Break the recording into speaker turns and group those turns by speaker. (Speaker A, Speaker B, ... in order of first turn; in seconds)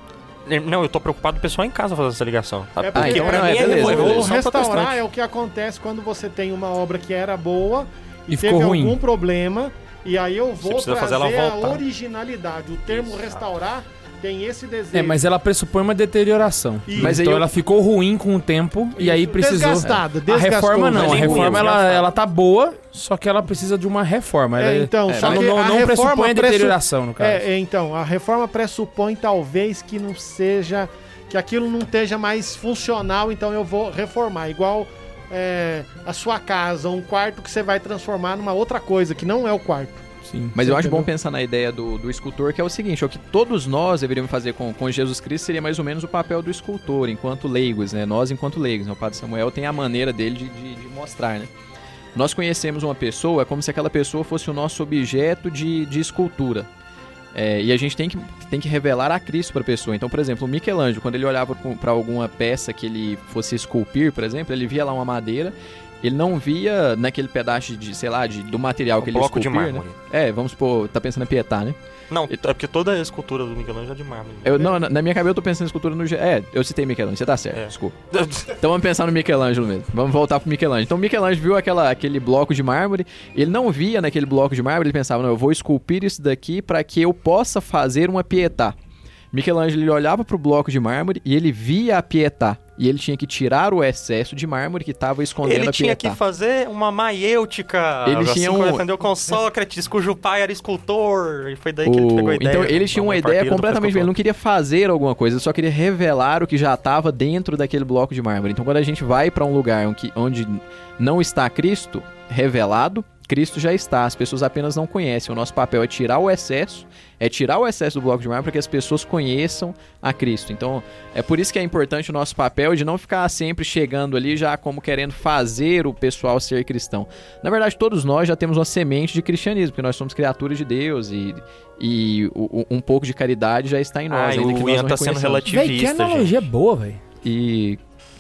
Speaker A: 0.5-5.0, 10.6-11.8, 20.9-22.1, 69.0-70.0, 72.1-74.8, 77.5-78.6, 95.4-104.1, 134.1-136.4
Speaker B: 2.8-15.2, 16.9-17.2, 19.0-22.0, 24.6-41.1
Speaker C: 2.9-4.3, 17.0-17.5, 25.1-25.5, 40.5-51.5, 52.1-56.7, 57.3-71.8, 74.4-78.0, 78.5-88.8, 89.3-96.2, 98.0-98.9, 101.8-135.5, 137.2-137.8
Speaker D: 8.3-9.0, 14.9-27.4, 40.3-40.6, 135.5-137.0